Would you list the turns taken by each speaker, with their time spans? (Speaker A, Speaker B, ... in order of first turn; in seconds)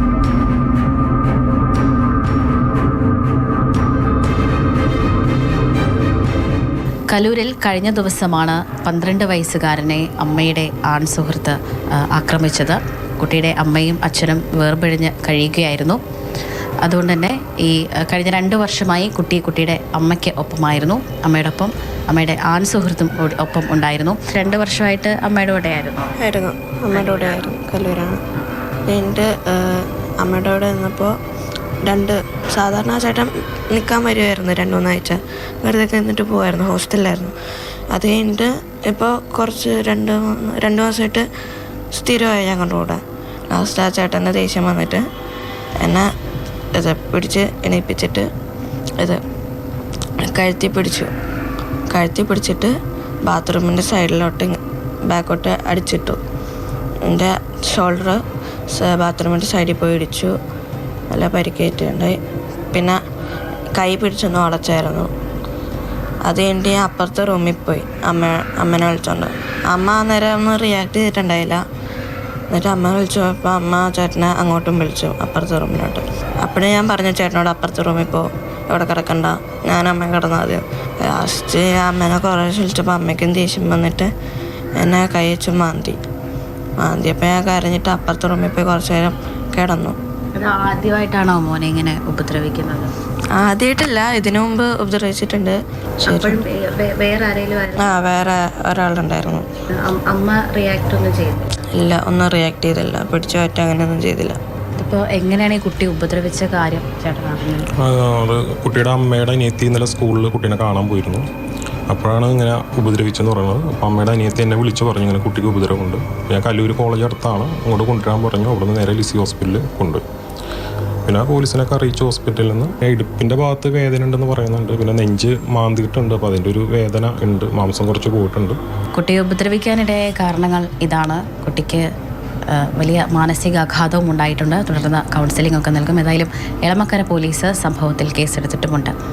Speaker A: 7.1-16.0, 16.8-26.1, 90.3-92.9, 96.0-97.9, 99.7-101.5, 104.8-107.7, 128.9-131.9, 132.5-138.9
Speaker B: 26.2-28.2, 28.9-31.1, 31.8-37.3, 37.9-41.2, 41.9-43.0, 43.5-45.0, 45.8-46.1, 46.8-48.2, 50.2-51.1, 51.9-52.7, 53.2-56.2, 57.0-58.2, 58.7-60.3, 61.1-62.2, 63.8-65.1, 66.2-71.6, 72.5-84.1, 84.8-86.0, 86.8-90.0, 93.3-96.4, 97.8-99.4, 101.8-104.4
Speaker C: 107.8-111.3, 111.9-120.0, 121.1-128.6